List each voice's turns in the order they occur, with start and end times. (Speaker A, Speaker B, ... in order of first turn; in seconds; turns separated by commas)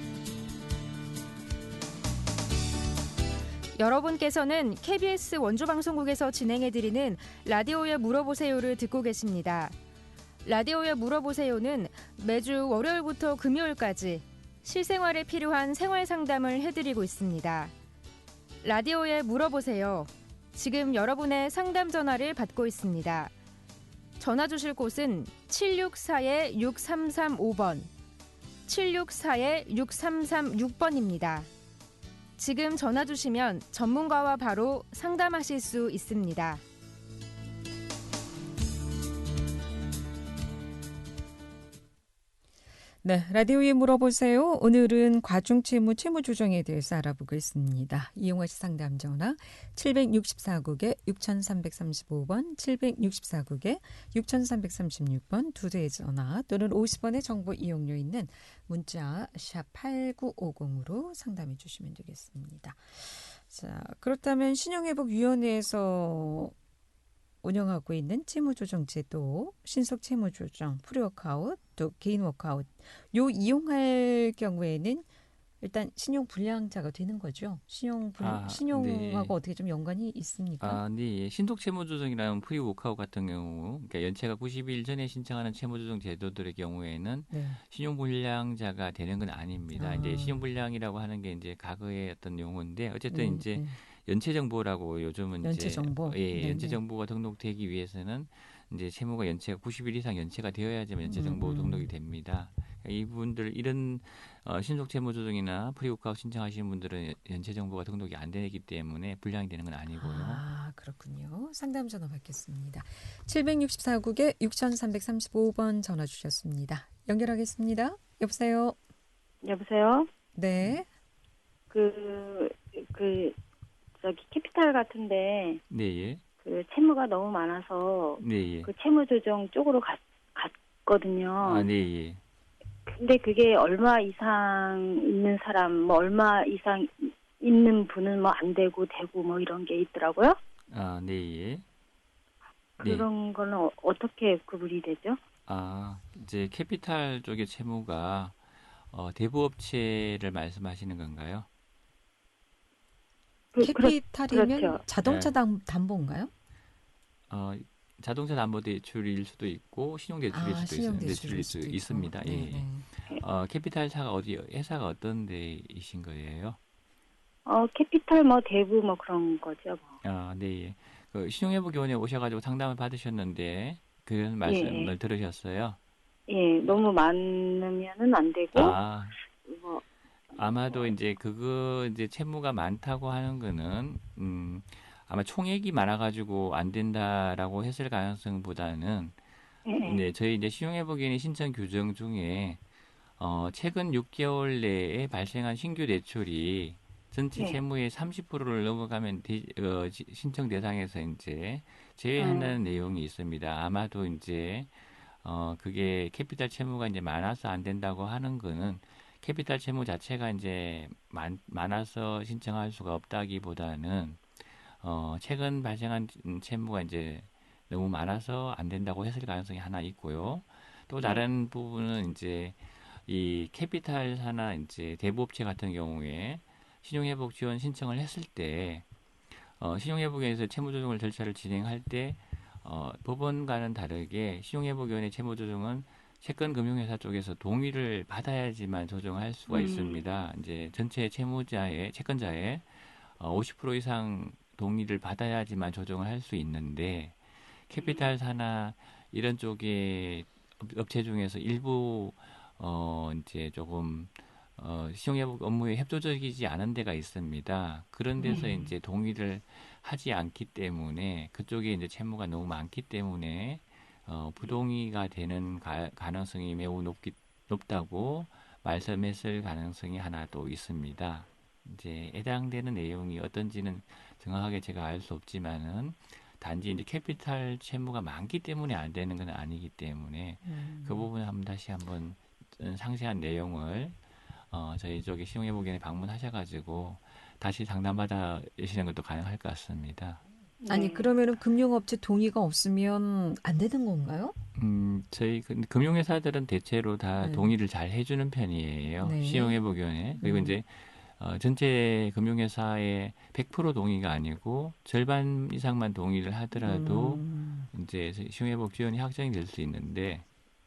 Speaker A: 3.8-9.8, Speaker A: 10.4-17.7, Speaker A: 18.6-23.3, Speaker A: 24.2-27.9, Speaker A: 28.7-31.5, Speaker A: 32.4-36.6, Speaker B: 43.0-66.5, Speaker B: 67.4-75.1, Speaker B: 75.6-80.8, Speaker C: 78.2-79.3, Speaker C: 80.6-110.4, Speaker B: 87.3-87.6, Speaker B: 89.8-90.4, Speaker B: 93.1-93.8, Speaker B: 95.4-96.8, Speaker B: 101.1-101.9, Speaker B: 109.9-118.8, Speaker D: 119.4-120.1, Speaker B: 120.4-120.9, Speaker D: 121.7-123.4, Speaker D: 124.0-125.6, Speaker C: 125.7-126.2, Speaker D: 126.4-131.7, Speaker C: 128.2-128.7, Speaker C: 131.4-132.2, Speaker D: 132.9-140.4, Speaker C: 140.7-141.7, Speaker D: 142.8-145.2, Speaker C: 142.8-143.1, Speaker C: 145.5-148.4, Speaker C: 148.9-151.5, Speaker D: 153.5-154.8, Speaker B: 153.6-156.3, Speaker C: 155.0-155.3, Speaker C: 157.3-166.6, Speaker B: 160.3-162.9, Speaker D: 167.5-170.0, Speaker C: 170.0-175.8, Speaker D: 174.4-174.9, Speaker D: 176.3-178.8, Speaker C: 178.5-179.2, Speaker D: 179.4-179.8, Speaker C: 180.3-189.2, Speaker D: 189.7-190.0, Speaker C: 189.8-192.6, Speaker C: 193.2-228.9, Speaker D: 202.2-202.6, Speaker C: 229.5-284.0, Speaker D: 239.5-240.1, Speaker D: 258.2-258.5, Speaker B: 280.4-281.1, Speaker C: 284.5-290.2, Speaker D: 290.6-291.1, Speaker B: 290.7-294.4, Speaker C: 294.6-310.2, Speaker B: 297.2-297.5, Speaker B: 299.0-299.6, Speaker B: 300.2-300.6, Speaker B: 306.6-307.7